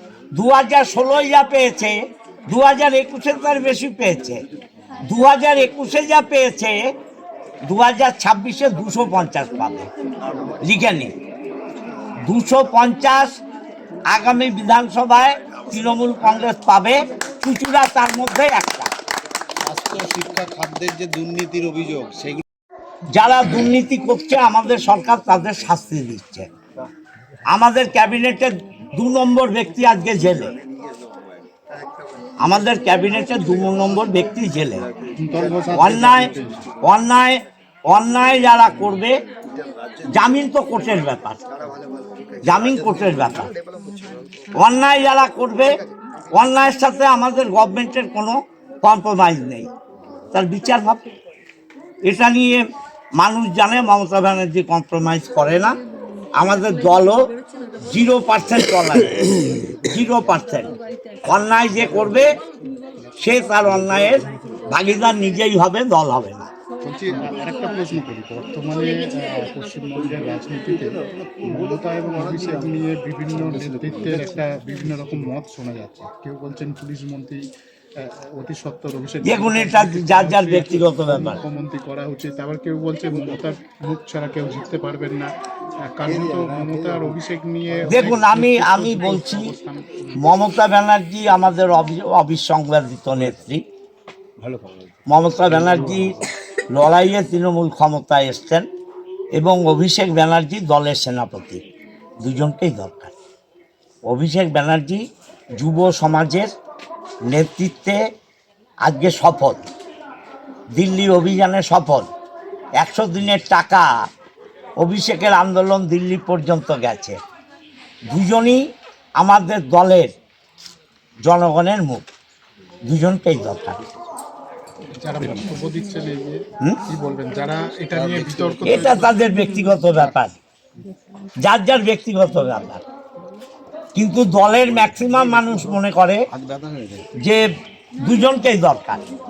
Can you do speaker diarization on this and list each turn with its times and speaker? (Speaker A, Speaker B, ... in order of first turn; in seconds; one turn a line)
Speaker A: 0.3-1.9
Speaker A: 2.5-4.4
Speaker A: 5.1-6.8
Speaker A: 7.7-9.9
Speaker A: 10.6-11.1
Speaker A: 12.2-13.3
Speaker A: 14.1-18.9
Speaker B: 19.6-22.4
Speaker A: 23.1-26.5
Speaker A: 27.5-30.5
Speaker A: 32.4-34.8
Speaker C: 35.2-36.6
Speaker A: 35.7-39.1
Speaker A: 40.1-41.4
Speaker A: 42.5-43.5
Speaker A: 44.5-45.7
Speaker A: 46.3-49.7
Speaker A: 50.3-51.0
Speaker A: 52.0-52.6
Speaker A: 53.2-55.8
Speaker A: 56.4-57.2
Speaker A: 57.8-60.7
Speaker A: 61.2-62.3
Speaker A: 63.2-66.5
Speaker C: 66.8-77.4
Speaker C: 78.0-85.3
Speaker A: 79.2-81.4
Speaker C: 85.8-90.3
Speaker B: 86.7-87.0
Speaker A: 87.9-89.5
Speaker A: 90.2-93.6
Speaker B: 94.4-94.8
Speaker A: 95.1-96.2
Speaker B: 95.6-96.1
Speaker A: 96.7-98.7
Speaker A: 99.3-101.6
Speaker A: 102.2-103.1
Speaker A: 104.1-105.0
Speaker A: 105.6-106.5
Speaker A: 107.3-108.0
Speaker A: 108.8-109.7
Speaker A: 110.8-112.1
Speaker A: 112.8-113.9
Speaker A: 114.8-117.2
Speaker A: 118.1-118.6
Speaker A: 119.2-120.1
Speaker A: 121.2-122.0
Speaker A: 122.9-123.8
Speaker C: 125.0-129.3
Speaker B: 127.9-128.9
Speaker A: 128.7-130.3
Speaker A: 131.4-132.8
Speaker A: 133.9-136.2
Speaker B: 136.3-137.1
Speaker A: 138.0-139.0